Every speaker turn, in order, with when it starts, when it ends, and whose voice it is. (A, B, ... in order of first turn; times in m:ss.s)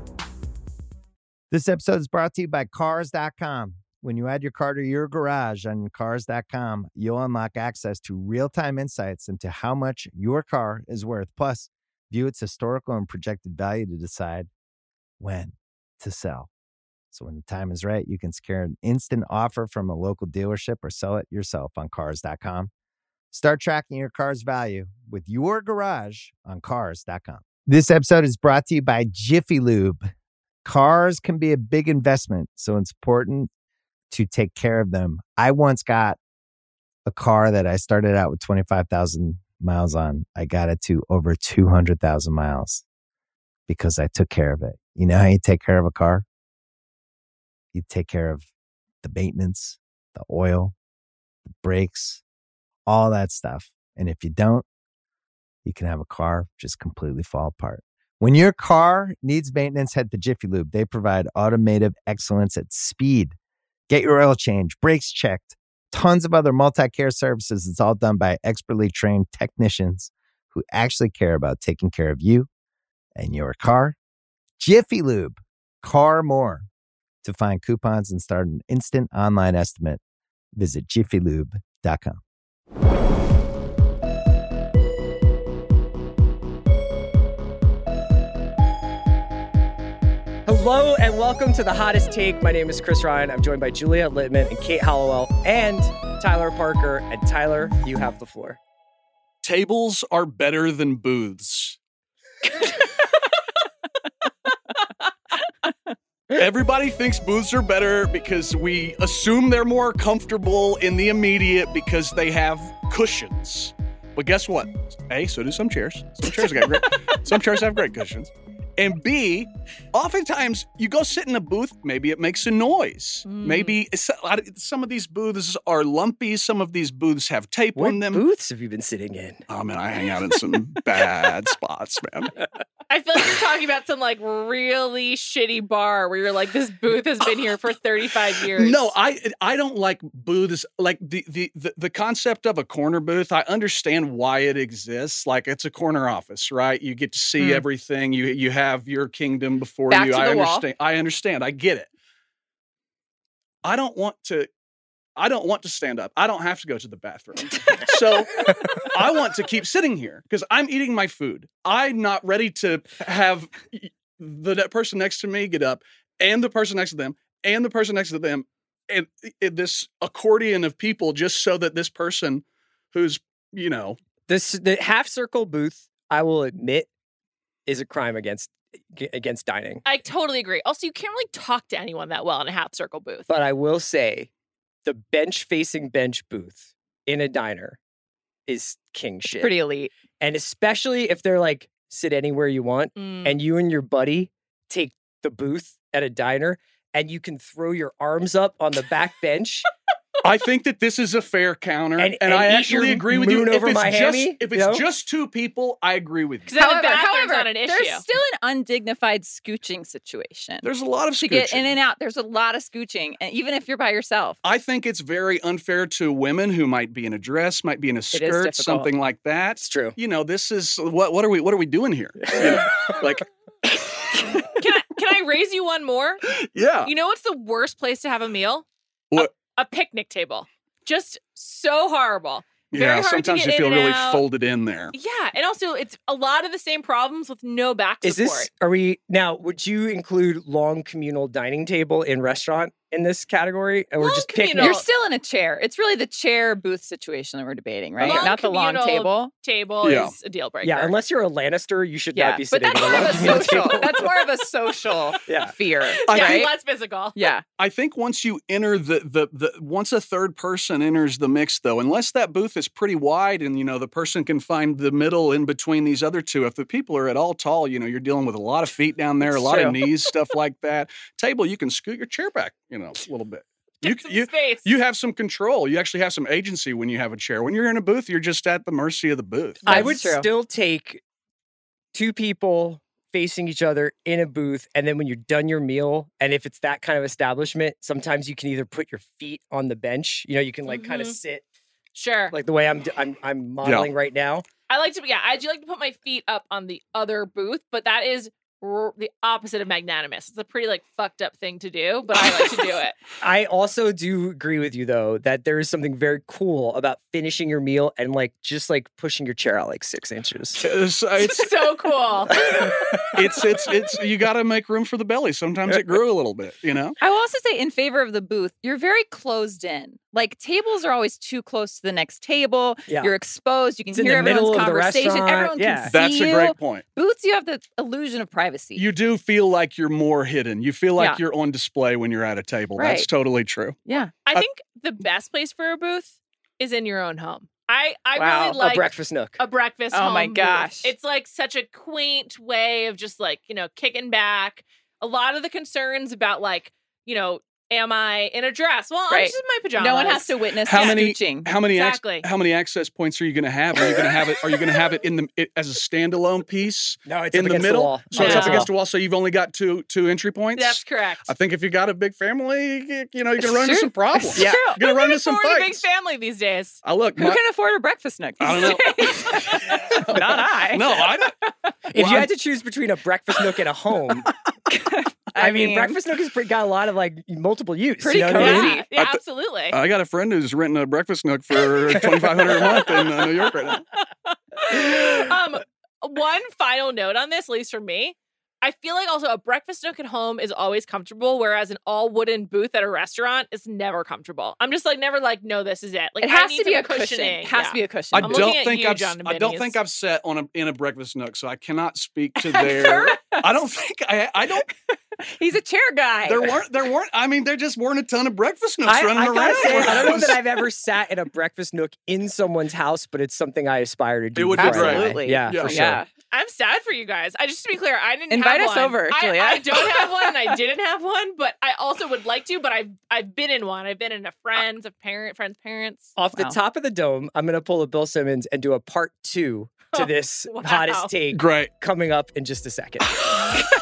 0:01.5-0:14.5 A
0:15.2-0:16.5 A
0:17.1-0:22.7 A
0:23.3-0:30.0 A
0:30.6-0:33.5 A
0:34.1-0:36.2 A
0:37.1-0:42.8 A
0:43.7-0:46.2 A
0:47.7-0:48.5 A
0:49.0-0:50.7 A
0:51.5-0:52.2 A
0:52.8-0:54.6 A
0:55.6-1:03.3 A
1:03.9-1:12.5 A
1:13.2-1:14.0 A
1:14.6-1:16.7 A
1:17.2-1:20.0 A
1:20.6-1:22.2 A
1:30.4-1:38.6 B
1:39.4-1:41.8 C
1:46.3-2:08.2 C
2:03.2-2:03.8 D
2:07.8-2:09.4 B
2:09.5-2:12.3 C
2:12.9-2:18.9 D
2:18.5-2:31.9 C
2:29.9-2:30.6 E
2:33.6-2:34.5 C
2:35.2-2:54.0 C
2:54.3-2:56.9 B
2:57.7-2:59.8 B
2:59.8-3:03.3 D
3:03.3-3:04.3 B
3:04.8-3:07.8 B
3:08.5-3:09.5 B
3:09.3-3:09.9 E
3:10.2-3:19.7 B
3:13.0-3:13.4 D
3:20.2-3:26.6 C
3:22.0-3:24.9 B
3:26.4-3:28.0 D
3:26.6-3:30.6 E
3:30.6-3:31.7 C
3:31.2-3:34.4 E
3:34.4-3:43.2 C
3:38.1-3:38.9 E
3:39.6-3:40.0 B
3:44.6-3:46.2 D
3:46.3-3:46.9 C
3:46.8-3:54.2 D
3:52.7-3:54.9 C
3:54.9-3:58.5 D
3:58.0-4:04.8 B
4:04.0-4:04.9 D
4:04.6-4:09.3 E
4:08.0-4:08.2 B
4:08.0-4:10.9 D
4:09.8-4:10.1 C
4:10.6-4:14.0 B
4:12.1-4:16.5 E
4:12.8-4:13.5 D
4:15.3-4:15.5 B
4:15.9-4:17.3 D
4:16.1-4:16.4 C
4:17.1-4:17.4 E
4:17.6-4:39.8 C
4:29.2-4:30.0 E
4:33.8-4:34.7 D
4:39.6-4:41.0 B
4:39.7-4:40.3 E
4:41.9-4:51.4 B
4:50.7-4:51.2 D
4:51.9-4:52.3 D
4:52.3-4:54.4 B
4:53.6-4:53.9 C
4:54.7-5:03.0 D
5:03.2-5:10.6 B
5:10.6-5:11.5 C
5:11.2-5:12.4 D
5:13.1-5:17.0 C
5:15.7-5:16.0 B
5:17.0-5:28.9 E
5:23.9-5:26.0 B
5:25.8-5:26.8 C
5:28.8-5:33.8 C
5:32.8-5:33.1 E
5:33.8-5:34.2 E
5:34.3-5:51.0 D
5:38.2-5:38.6 E
5:38.6-5:39.4 B
5:39.9-5:40.9 E
5:49.1-5:51.6 E
5:50.6-6:05.8 C
5:51.7-5:52.3 D
5:57.1-5:58.7 B
5:58.1-5:58.6 D
6:00.5-6:01.3 D
6:03.4-6:04.8 E
6:04.8-6:06.8 D
6:06.8-6:07.4 C
6:07.2-6:11.1 E
6:08.4-6:11.4 C
6:11.9-6:14.3 B
6:11.9-6:12.3 C
6:14.7-6:16.0 E
6:15.4-6:18.7 B
6:18.0-6:18.8 E
6:18.3-6:19.8 D
6:18.9-6:23.8 C
6:22.0-6:22.8 B
6:24.5-6:39.8 D
6:36.2-6:38.5 E
6:38.1-6:44.7 C
6:42.4-6:43.2 E
6:45.4-6:46.6 E
6:46.2-6:50.4 C
6:48.8-6:56.0 B
6:49.6-6:50.1 E
6:54.4-6:55.9 C
6:54.6-6:56.1 E
6:56.3-7:06.2 D
6:58.3-7:00.5 E
7:06.2-7:13.5 B
7:06.3-7:06.6 E
7:09.9-7:11.1 D
7:11.3-7:11.7 C